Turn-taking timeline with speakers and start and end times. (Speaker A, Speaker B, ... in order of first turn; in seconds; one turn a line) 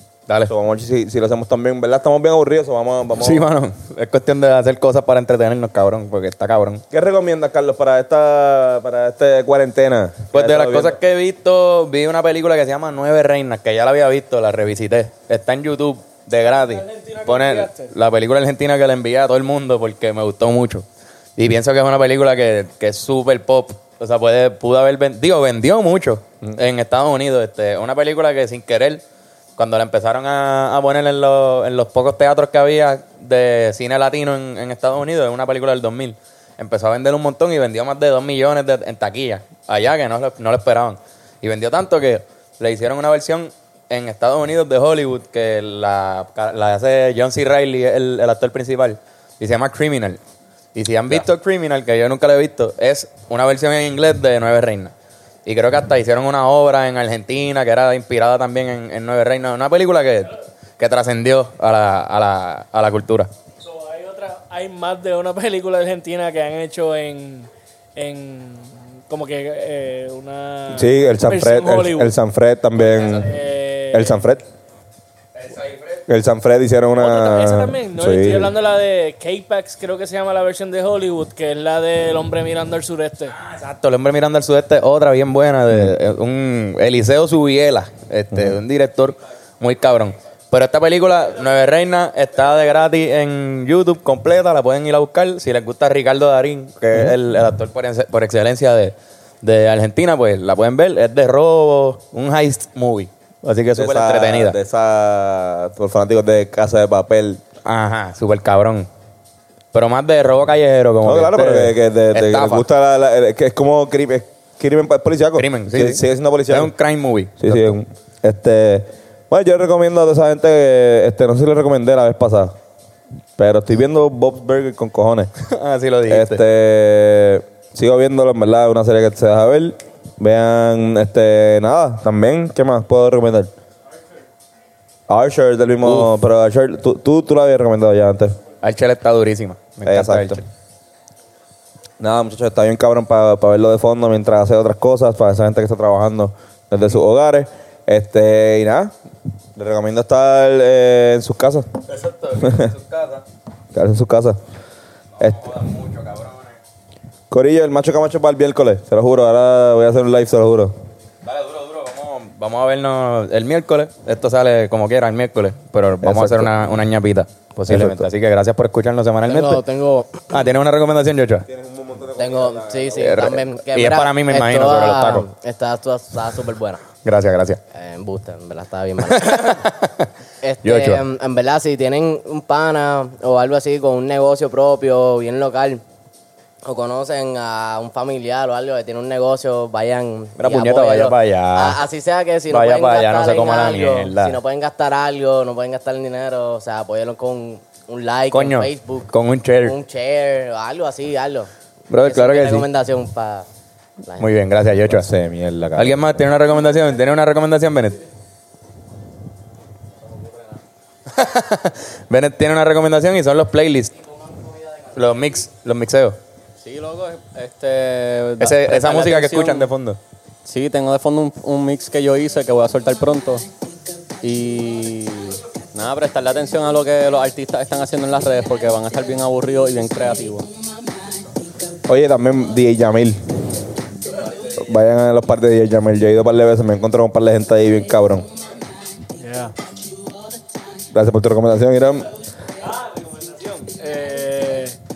Speaker A: 0.5-3.5
Speaker B: 3.2-6.8
Speaker A: 6.9-11.0
Speaker B: 10.3-20.9
Speaker C: 16.6-17.9
Speaker B: 21.4-29.0
Speaker B: 29.6-50.2
Speaker B: 50.8-54.9
Speaker B: 55.5-63.3
Speaker C: 63.6-72.1
Speaker A: 70.7-73.4
Speaker C: 72.8-74.2
Speaker A: 73.9-74.5
Speaker B: 75.3-76.1
Speaker A: 76.1-78.5
Speaker C: 77.0-83.3
Speaker B: 83.3-104.6
Speaker A: 88.3-88.6
Speaker A: 103.8-107.4
Speaker B: 107.7-108.9
Speaker B: 109.7-112.7
Speaker A: 111.0-116.7
Speaker B: 115.4-117.8
Speaker A: 117.4-122.5
Speaker A: 123.4-125.3
Speaker B: 125.4-126.4
Speaker A: 126.1-133.5
Speaker A: 135.1-138.4
Speaker B: 135.8-136.1
Speaker B: 138.6-140.4
Speaker A: 139.9-140.4
Speaker A: 142.0-148.9
Speaker A: 149.6-151.8
Speaker B: 151.9-153.2
Speaker A: 152.4-152.7
Speaker A: 153.7-154.4
Speaker B: 155.2-156.6
Speaker A: 155.2-155.5
Speaker A: 157.3-160.8
Speaker B: 161.2-169.6
Speaker A: 166.0-166.5
Speaker A: 167.7-168.1
Speaker D: 169.2-170.2
Speaker B: 170.3-171.5
Speaker A: 171.5-173.3
Speaker D: 172.2-176.8
Speaker B: 172.9-175.3
Speaker B: 177.0-177.6
Speaker D: 177.7-179.6
Speaker B: 179.0-180.1
Speaker D: 180.4-185.8
Speaker B: 180.6-181.0
Speaker D: 186.6-201.5
Speaker B: 190.4-191.8
Speaker B: 192.5-194.4
Speaker B: 198.3-199.8
Speaker B: 201.9-202.7
Speaker D: 202.0-203.5
Speaker D: 204.1-204.3
Speaker B: 204.2-205.1
Speaker A: 204.9-206.0
Speaker B: 205.8-208.0
Speaker B: 211.1-214.0
Speaker B: 214.9-216.2
Speaker E: 216.6-219.7
Speaker B: 218.4-220.0
Speaker E: 220.4-223.5
Speaker E: 224.2-230.5
Speaker A: 231.9-233.2
Speaker A: 234.4-238.3
Speaker C: 239.2-239.5
Speaker A: 240.9-242.1
Speaker C: 242.6-244.8